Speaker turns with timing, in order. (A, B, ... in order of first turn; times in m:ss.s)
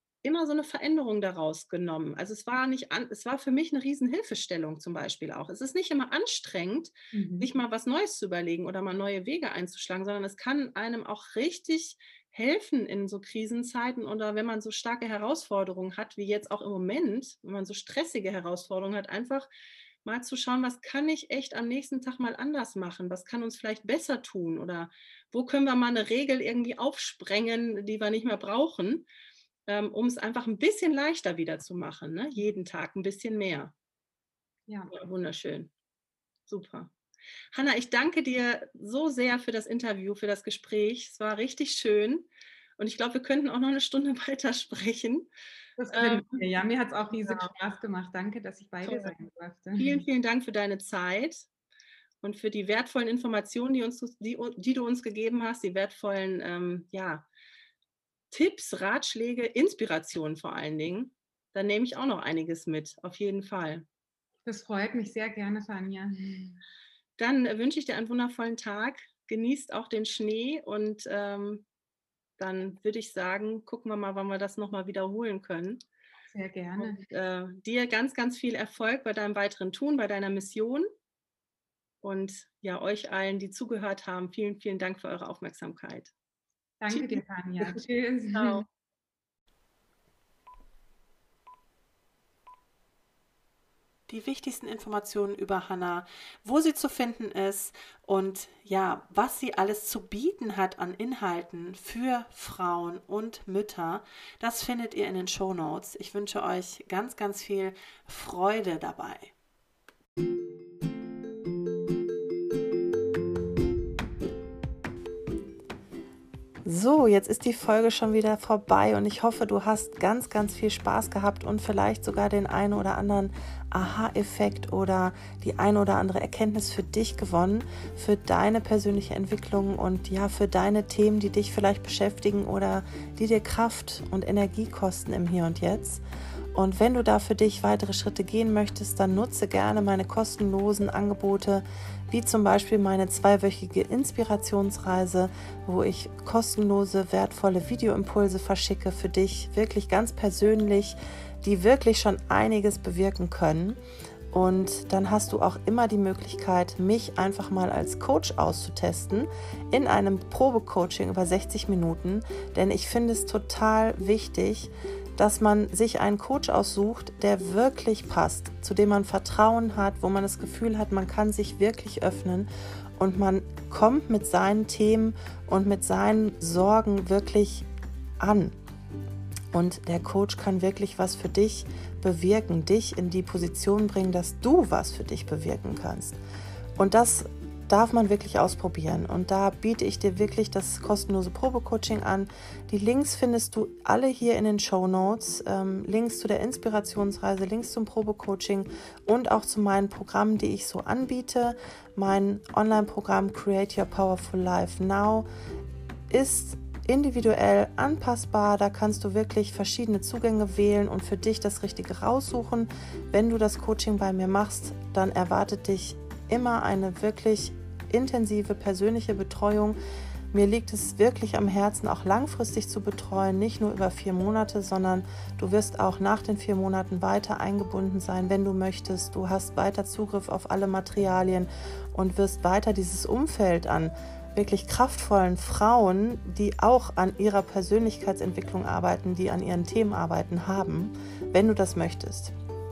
0:00.2-0:19.5 A
0:07.1-0:07.5 B
0:20.0-0:29.1 A
0:29.7-0:33.7 A
0:34.7-0:34.9 B
0:34.9-0:35.7 A
0:36.5-0:36.9 A
0:37.5-0:45.3 A
0:45.8-0:50.0 B
0:45.9-0:46.5 A
0:47.2-0:47.5 A
0:48.8-0:49.1 A
0:49.8-0:51.5 A
0:52.2-0:57.3 A
0:58.3-1:03.8 A
1:04.5-1:06.6 B
1:07.2-1:11.6 A
1:12.4-1:15.8 A
1:16.3-1:17.0 B
1:16.8-1:20.9 A
1:22.0-1:26.1 A
1:26.8-1:28.6 B
1:26.9-1:27.8 A
1:28.3-1:28.6 A
1:34.1-1:49.3 C
1:56.6-2:16.0 C
2:16.5-2:33.8 C
2:34.3-2:57.7 C
2:58.2-2:58.6 C
2:59.5-3:06.2 C
3:06.8-3:25.3 C
3:26.1-3:39.8 C
3:40.3-4:02.3 C